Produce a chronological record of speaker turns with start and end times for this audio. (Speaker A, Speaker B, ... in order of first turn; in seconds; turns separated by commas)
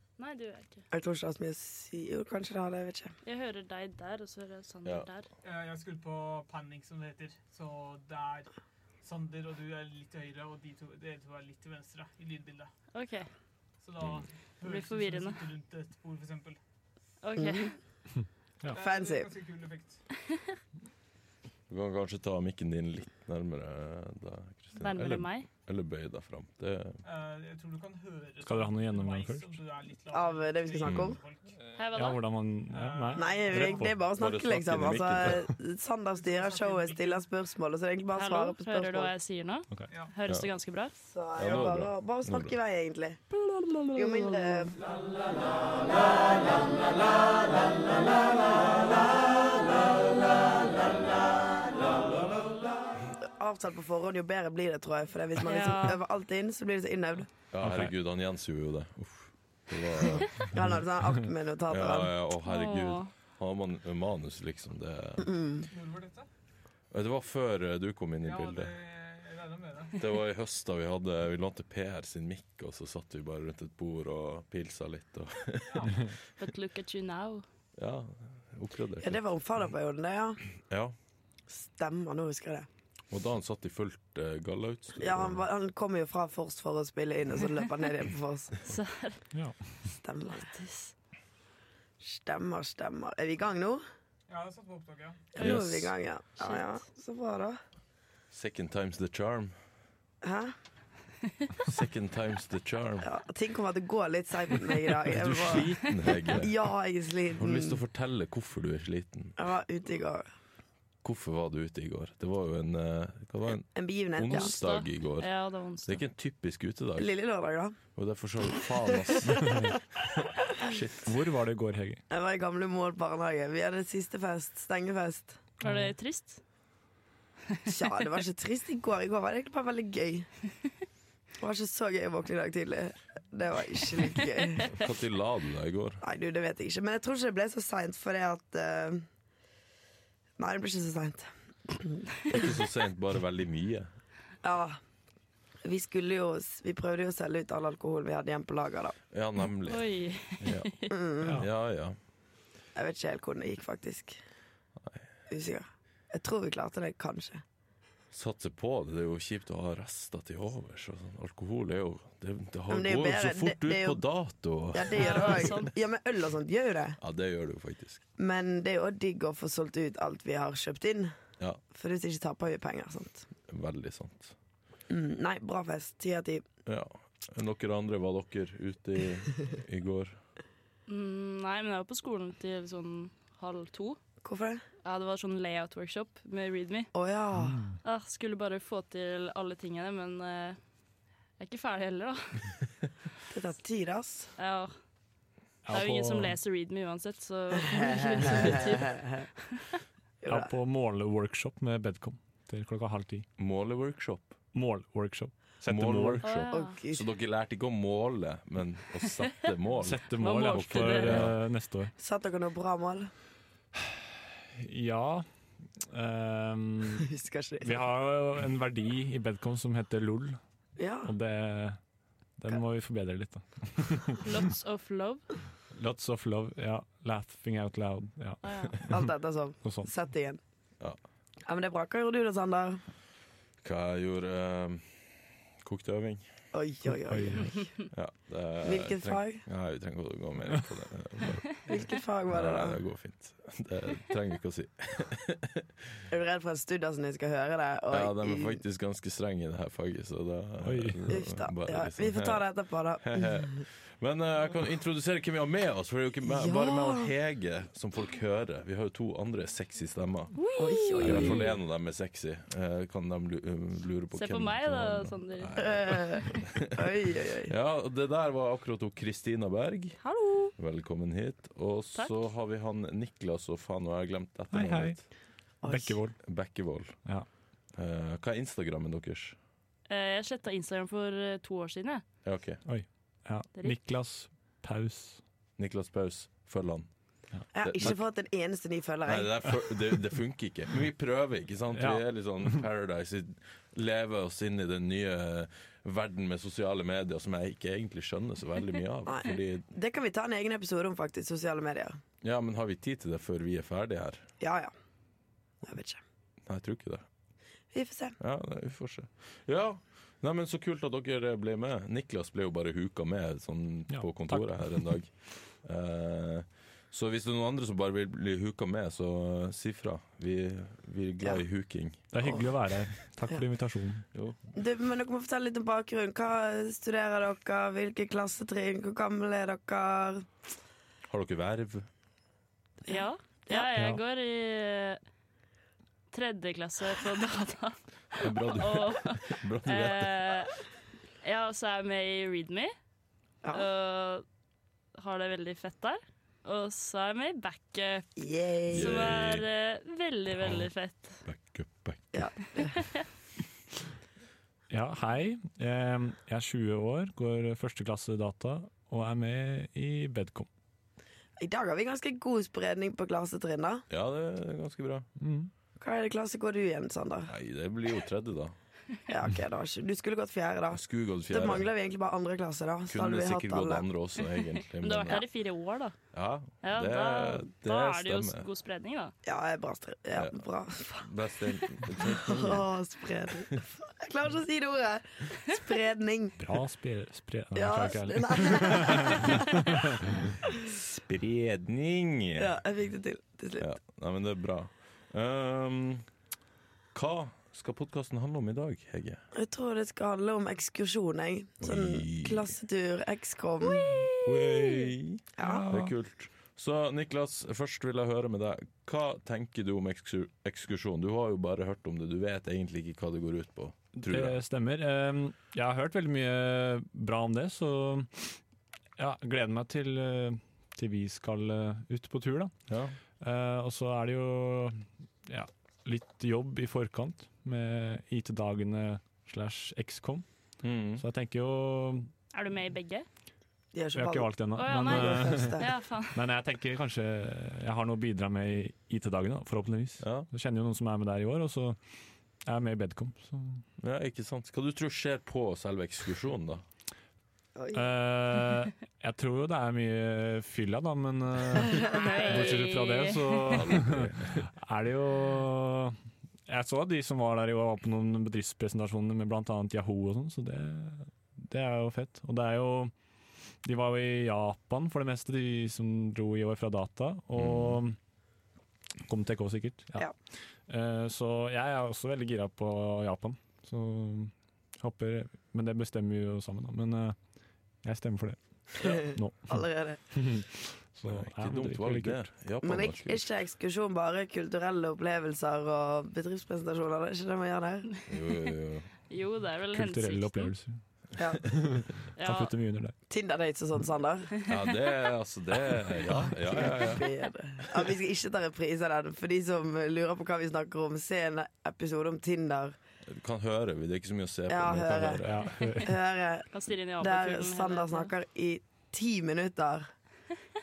Speaker A: 0.2-0.8, Speaker B: 0.9-3.1, Speaker A: 3.2-5.3, Speaker C: 5.4-8.5, Speaker C: 9.0-12.7, Speaker A: 12.9-13.3, Speaker C: 13.8-16.6, Speaker D: 14.0-14.3, Speaker A: 14.6-15.5, Speaker A: 17.2-17.7, Speaker B: 17.4-17.7, Speaker C: 18.7-20.0, Speaker B: 18.7-19.3, Speaker D: 21.7-27.0, Speaker A: 24.8-25.5, Speaker C: 27.0-31.6, Speaker E: 28.4-29.6, Speaker B: 30.1-31.2, Speaker D: 30.8-31.2, Speaker A: 31.8-32.2, Speaker E: 31.9-34.0, Speaker C: 32.7-33.5, Speaker B: 33.1-39.1, Speaker D: 34.2-35.5, Speaker C: 36.2-37.2, Speaker A: 38.1-40.9, Speaker B: 41.0-43.2, Speaker D: 41.4-42.5, Speaker B: 43.9-44.8, Speaker B: 53.2-57.3, Speaker A: 55.5-56.0, Speaker D: 57.5-60.4, Speaker E: 57.6-57.9, Speaker B: 60.2-62.1, Speaker D: 61.7-65.3, Speaker A: 62.4-63.1, Speaker B: 65.2-65.6, Speaker C: 65.7-66.3, Speaker D: 66.9-68.8, Speaker C: 68.2-70.0, Speaker D: 70.0-76.0, Speaker A: 76.4-77.4, Speaker D: 77.8-79.2, Speaker B: 79.0-80.4, Speaker B: 81.5-82.7, Speaker D: 83.1-85.4, Speaker B: 85.0-88.6, Speaker A: 88.6-89.2, Speaker E: 89.3-89.6, Speaker B: 90.0-90.6, Speaker A: 90.5-90.9, Speaker B: 92.0-93.8, Speaker C: 94.3-95.3, Speaker B: 95.3-97.6, Speaker D: 95.4-95.9, Speaker A: 96.4-96.7, Speaker D: 98.3-99.5, Speaker B: 100.2-100.5, Speaker D: 101.7-103.1, Speaker B: 103.0-107.8, Speaker D: 105.1-106.5, Speaker D: 107.4-109.3, Speaker B: 109.4-110.3, Speaker D: 111.0-115.3, Speaker B: 113.5-114.5, Speaker A: 114.3-116.0, Speaker D: 115.8-117.1, Speaker B: 117.0-117.8, Speaker D: 118.0-119.6, Speaker D: 120.2-121.0, Speaker E: 121.0-122.0, Speaker B: 122.1-125.4, Speaker E: 125.6-125.9, Speaker A: 125.6-126.4, Speaker B: 127.7-130.3, Speaker B: 131.4-134.7, Speaker D: 134.7-136.0, Speaker B: 136.0-139.1, Speaker B: 140.4-142.5, Speaker D: 142.3-143.9, Speaker B: 144.4-144.8, Speaker B: 145.6-148.9, Speaker D: 149.1-149.8, Speaker A: 149.7-150.9, Speaker D: 150.4-150.7, Speaker B: 150.9-151.4, Speaker D: 151.4-151.9, Speaker B: 152.7-154.2, Speaker B: 155.3-157.4, Speaker D: 158.1-165.5, Speaker B: 162.7-164.0, Speaker B: 164.7-167.0, Speaker A: 164.9-165.7, Speaker D: 167.0-168.0, Speaker B: 168.2-171.1, Speaker B: 171.7-173.3, Speaker D: 173.5-174.3, Speaker B: 174.9-176.4, Speaker D: 176.7-180.2, Speaker A: 180.9-184.0, Speaker B: 184.2-184.6, Speaker A: 184.8-186.9, Speaker B: 186.9-187.6, Speaker E: 187.4-187.8, Speaker A: 187.8-190.6, Speaker A: 191.4-192.5, Speaker B: 193.3-194.3, Speaker A: 194.4-194.7, Speaker E: 195.6-196.3, Speaker A: 195.7-198.9, Speaker B: 197.6-199.2, Speaker B: 200.2-200.5, Speaker E: 200.3-203.2, Speaker D: 203.4-204.3, Speaker E: 204.5-206.2, Speaker D: 205.7-211.3, Speaker A: 206.2-206.8, Speaker B: 206.5-207.1, Speaker E: 209.8-211.9, Speaker A: 210.2-211.2, Speaker B: 212.0-213.1, Speaker E: 214.6-217.1, Speaker B: 217.0-217.7, Speaker E: 217.6-220.4, Speaker B: 220.8-221.1, Speaker E: 221.0-221.8, Speaker E: 222.4-224.2, Speaker A: 224.2-225.2, Speaker E: 225.7-229.0, Speaker A: 228.4-228.7, Speaker B: 228.9-230.4, Speaker E: 229.6-229.9, Speaker B: 231.4-232.8, Speaker D: 233.6-236.2, Speaker B: 236.5-237.6, Speaker E: 236.9-237.5, Speaker D: 237.9-241.6, Speaker B: 238.6-239.4, Speaker B: 241.7-242.8, Speaker D: 242.3-245.6, Speaker B: 246.1-248.6, Speaker D: 247.9-252.4, Speaker E: 250.6-251.0, Speaker B: 251.1-253.6, Speaker D: 253.0-260.3, Speaker B: 256.2-257.1, Speaker A: 260.4-261.4, Speaker B: 260.6-261.5, Speaker D: 261.0-266.6, Speaker A: 264.1-265.5, Speaker B: 265.6-267.5, Speaker D: 267.5-270.0, Speaker A: 270.0-270.5, Speaker D: 270.6-275.0, Speaker A: 271.9-272.3, Speaker E: 274.5-275.0, Speaker B: 275.6-276.0, Speaker E: 275.6-276.2, Speaker D: 276.2-277.0, Speaker D: 277.7-279.4, Speaker A: 279.9-282.0, Speaker D: 282.2-282.6, Speaker E: 282.6-285.2, Speaker D: 285.6-286.9, Speaker B: 287.5-289.3, Speaker D: 287.6-288.0, Speaker D: 289.1-299.6, Speaker E: 291.7-292.0, Speaker B: 299.1-302.0, Speaker D: 302.2-304.2, Speaker B: 304.4-304.7, Speaker B: 305.6-306.0, Speaker D: 306.4-307.0, Speaker B: 307.7-308.1, Speaker D: 308.2-315.1, Speaker E: 313.9-314.9, Speaker D: 315.6-322.1, Speaker E: 322.1-324.0, Speaker B: 324.5-330.3, Speaker D: 331.1-331.9, Speaker A: 332.9-335.0, Speaker A: 336.1-340.5, Speaker D: 338.2-340.3, Speaker A: 341.2-342.7, Speaker A: 343.5-344.2, Speaker A: 344.9-348.1, Speaker B: 348.2-349.0, Speaker A: 348.7-351.2, Speaker D: 348.7-349.4, Speaker D: 351.2-352.2, Speaker B: 352.1-352.8, Speaker A: 352.6-353.0, Speaker E: 354.7-360.5, Speaker B: 361.4-363.8, Speaker D: 363.9-365.1, Speaker E: 365.2-365.5, Speaker B: 365.8-367.3, Speaker D: 367.3-368.5, Speaker B: 369.1-373.9, Speaker D: 370.7-371.7, Speaker D: 372.9-375.2, Speaker A: 374.8-375.9, Speaker D: 376.1-378.5, Speaker A: 376.6-379.1, Speaker B: 379.2-381.1, Speaker D: 380.1-380.4, Speaker D: 381.0-382.6, Speaker B: 382.0-386.4, Speaker E: 386.4-390.3, Speaker B: 387.5-389.3, Speaker D: 390.8-392.5, Speaker B: 392.4-393.7, Speaker D: 393.6-396.0, Speaker D: 396.9-399.2, Speaker B: 399.3-404.1, Speaker D: 401.6-402.5, Speaker A: 403.7-404.8, Speaker D: 404.2-414.4, Speaker B: 405.4-405.7, Speaker E: 405.4-405.9, Speaker E: 413.9-418.4, Speaker E: 419.0-422.6, Speaker D: 422.7-422.9, Speaker E: 423.2-430.2, Speaker D: 430.6-431.0, Speaker E: 431.0-432.1, Speaker A: 432.3-433.1, Speaker B: 433.7-435.7, Speaker E: 433.9-435.6, Speaker A: 434.5-436.2, Speaker E: 436.1-441.8, Speaker D: 440.0-440.3, Speaker E: 442.4-443.6, Speaker D: 443.8-446.6, Speaker B: 447.6-448.0, Speaker E: 447.7-455.9, Speaker B: 451.6-452.6, Speaker A: 451.9-453.6, Speaker D: 453.5-454.4, Speaker E: 456.5-462.9, Speaker E: 463.6-468.0, Speaker D: 467.3-467.8, Speaker E: 469.1-470.1, Speaker E: 470.7-477.2, Speaker E: 477.8-482.2, Speaker B: 478.8-480.0, Speaker D: 481.1-483.2, Speaker B: 482.6-487.9, Speaker D: 488.1-488.9, Speaker A: 489.1-490.5, Speaker E: 489.7-490.8, Speaker A: 492.2-492.5, Speaker E: 492.2-492.9, Speaker B: 493.1-494.3, Speaker D: 494.5-497.0, Speaker B: 496.4-502.8, Speaker D: 503.1-505.6, Speaker B: 504.5-505.2, Speaker E: 505.2-505.9, Speaker B: 505.8-506.5, Speaker A: 506.5-508.1, Speaker B: 507.0-509.9